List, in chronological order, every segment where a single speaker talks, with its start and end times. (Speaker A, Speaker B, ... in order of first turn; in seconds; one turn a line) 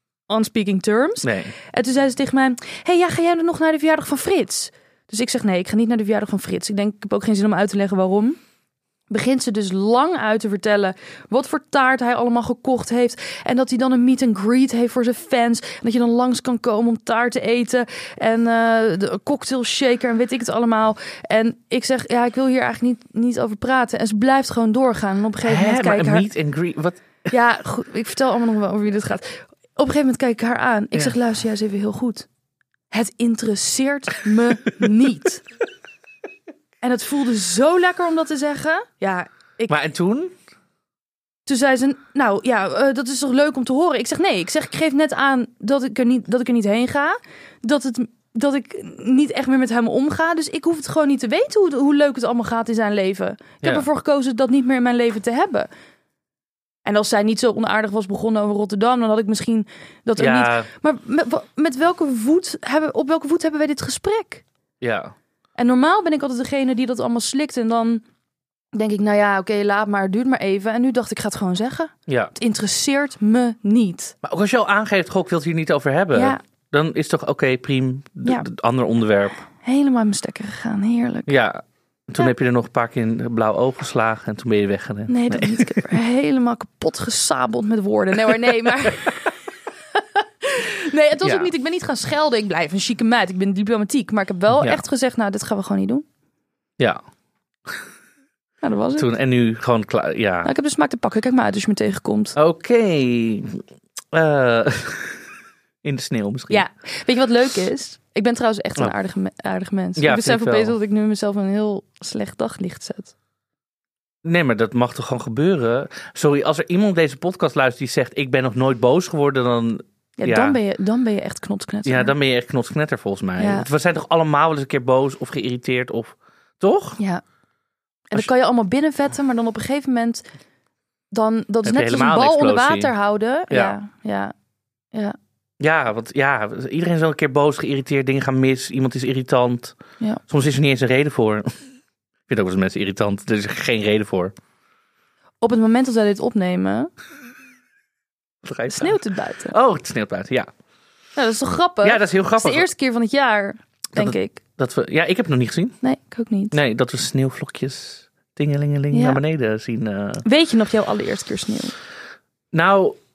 Speaker A: 0.3-8.4
Speaker B: 1.2-1.5
Speaker A: 9.1-26.3
Speaker B: 25.4-27.0
Speaker A: 27.3-32.3
Speaker A: 32.9-35.4
Speaker A: 36.8-39.7
Speaker B: 39.7-40.3
Speaker A: 41.5-55.7
Speaker A: 56.8-64.4
Speaker B: 60.2-60.7
Speaker B: 64.8-65.1
Speaker A: 65.6-68.0
Speaker A: 68.7-74.1
Speaker B: 72.1-72.3
Speaker B: 74.2-79.4
Speaker A: 76.1-76.4
Speaker A: 79.6-81.3
Speaker B: 81.3-85.8
Speaker A: 85.1-89.3
Speaker A: 90.0-96.0
Speaker B: 91.2-91.5
Speaker B: 94.5-94.8
Speaker A: 98.6-99.1
Speaker B: 99.0-100.5
Speaker A: 100.4-102.4
Speaker B: 102.3-105.2
Speaker B: 105.8-106.6
Speaker A: 106.5-113.1
Speaker B: 110.0-110.7
Speaker B: 114.2-120.6
Speaker A: 120.2-122.1
Speaker B: 121.8-127.0
Speaker A: 123.4-123.7
Speaker A: 128.1-130.2
Speaker A: 131.1-134.3
Speaker B: 131.6-132.9
Speaker B: 133.5-133.8
Speaker B: 135.6-139.8
Speaker B: 140.3-141.5
Speaker B: 142.3-144.3
Speaker A: 145.4-146.9
Speaker B: 148.4-150.5
Speaker A: 148.7-149.6
Speaker A: 151.2-154.4
Speaker B: 151.8-152.7
Speaker B: 153.9-155.8
Speaker A: 155.8-156.5
Speaker B: 156.5-160.2
Speaker A: 158.9-159.2
Speaker A: 160.2-161.7
Speaker B: 162.5-163.0